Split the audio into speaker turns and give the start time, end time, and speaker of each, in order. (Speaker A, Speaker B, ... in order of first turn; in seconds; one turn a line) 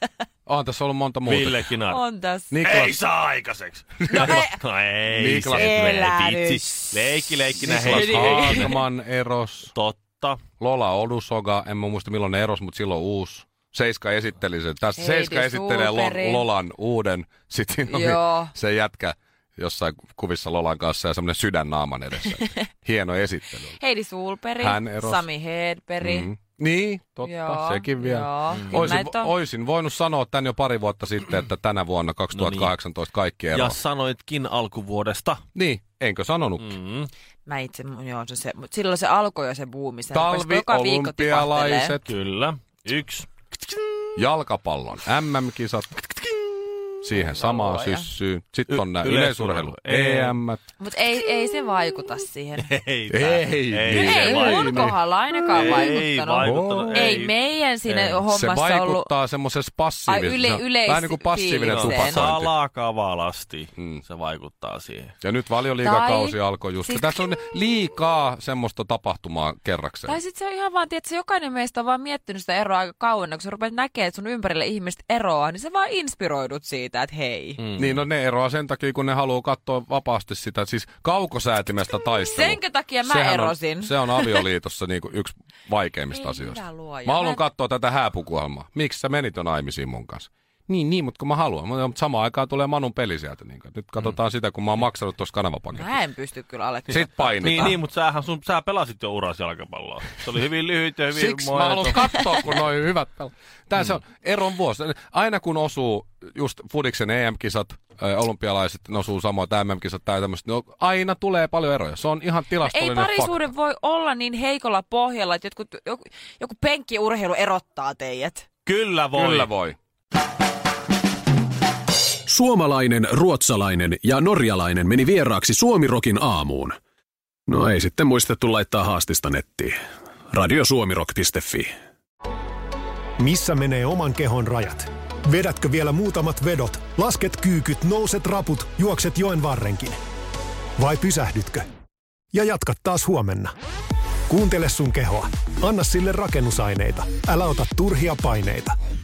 Speaker A: 0.5-1.7
Speaker B: 1.2-2.0
Speaker C: 1.9-2.6
Speaker A: 2.5-3.0
Speaker B: 2.6-8.7
Speaker A: 4.0-4.5
Speaker C: 4.1-4.5
Speaker A: 5.1-5.8
Speaker C: 5.4-7.1
Speaker A: 7.6-9.7
Speaker C: 7.9-8.8
Speaker B: 9.7-10.4
Speaker A: 10.6-23.8
Speaker C: 15.0-16.5
Speaker C: 17.9-18.5
Speaker C: 23.8-26.3
Speaker A: 24.6-25.3
Speaker A: 26.0-33.8
Speaker C: 27.2-29.3
Speaker B: 28.5-28.9
Speaker B: 32.3-32.7
Speaker B: 33.5-35.4
Speaker A: 35.5-36.8
Speaker B: 36.6-37.1
Speaker C: 37.5-42.0
Speaker A: 40.1-42.1
Speaker B: 42.1-43.3
Speaker A: 44.1-46.0
Speaker A: 47.0-50.6
Speaker C: 47.1-48.1
Speaker B: 48.7-50.4
Speaker C: 50.8-52.7
Speaker B: 52.6-54.9
Speaker A: 53.1-55.9
Speaker C: 53.9-59.1
Speaker B: 55.5-58.2
Speaker A: 56.4-57.2
Speaker A: 58.3-62.5
Speaker C: 60.1-62.3
Speaker B: 61.6-65.1
Speaker A: 63.8-64.0
Speaker A: 65.2-70.2
Speaker C: 65.8-67.3
Speaker C: 70.1-77.6
Speaker A: 77.8-96.0
Speaker C: 82.2-84.4
Speaker C: 86.1-87.4
Speaker C: 95.7-97.4
Speaker A: 96.9-97.8
Speaker B: 97.3-102.6
Speaker A: 101.1-113.4
Speaker C: 112.6-118.5
Speaker B: 118.7-119.5
Speaker A: 119.1-119.8
Speaker D: 122.3-126.8
Speaker D: 127.5-129.8
Speaker D: 130.3-131.7
Speaker E: 133.2-140.0
Speaker E: 140.8-141.7
Speaker E: 142.3-143.5
Speaker E: 144.3-148.7